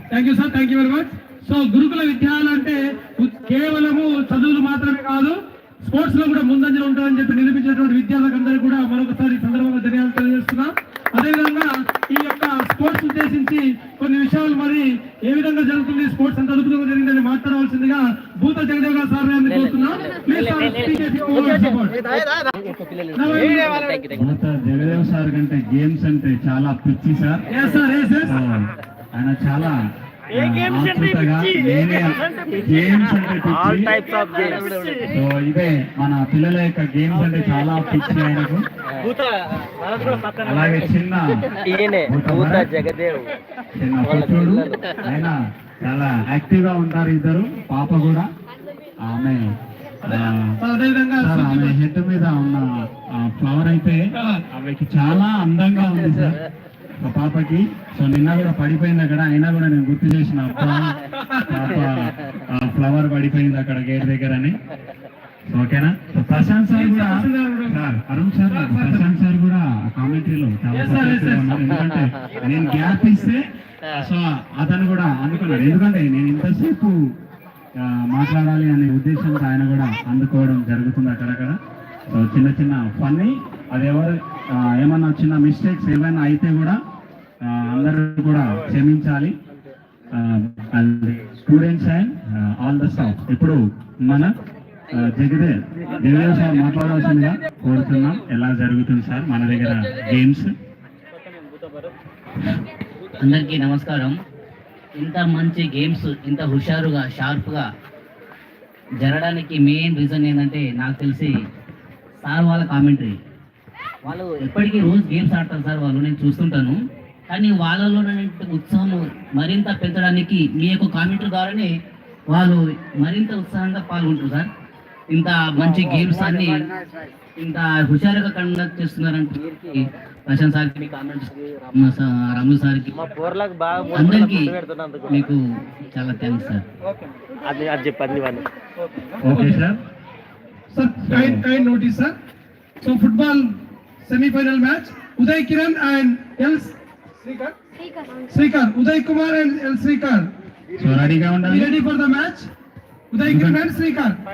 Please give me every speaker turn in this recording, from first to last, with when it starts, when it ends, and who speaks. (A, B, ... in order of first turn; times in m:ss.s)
0:00.1-0:22.0 A
0:22.8-0:23.3 B
0:23.2-0:23.7 A
0:24.1-0:27.4 C
0:27.5-0:28.4 A
0:28.2-0:29.8 C
0:30.3-0:33.9 C
0:33.5-0:35.1 B
0:35.1-0:38.6 C
0:39.8-0:40.2 B
0:40.0-0:41.3 C
0:41.6-0:43.3 B
0:42.1-0:42.7 C
0:43.8-0:48.3 C
0:44.0-0:44.9 B
0:49.0-0:49.5 C
0:50.0-0:50.6 C
0:50.6-0:51.8 A
0:51.2-0:56.4 C
0:57.0-1:04.6 C
1:05.5-1:16.9 C
1:06.3-1:07.8 A
1:08.5-1:09.1 A
1:10.7-1:11.6 A
1:17.8-1:21.6 C
1:22.1-1:26.8 C
1:27.4-1:29.4 C
1:30.1-1:34.3 C
1:34.9-1:40.5 C
1:43.2-1:44.1 D
1:45.0-1:47.7 D
1:49.0-1:51.3 D
1:52.2-1:53.1 D
1:54.1-1:56.8 D
1:57.3-2:01.7 D
2:02.3-2:04.5 D
2:05.1-2:06.7 D
2:07.4-2:12.9 D
2:13.0-2:15.1 B
2:13.9-2:14.5 D
2:15.1-2:15.4 D
2:15.9-2:16.6 D
2:17.4-2:18.5 B
2:19.2-2:19.8 C
2:19.3-2:19.6 A
2:20.7-2:22.1 A
2:21.1-2:21.4 C
2:22.8-2:23.5 A
2:24.0-2:26.7 A
2:28.3-2:30.3 A
2:30.8-2:31.8 C
2:31.4-2:32.5 A
2:33.1-2:34.1 A
2:33.2-2:33.6 C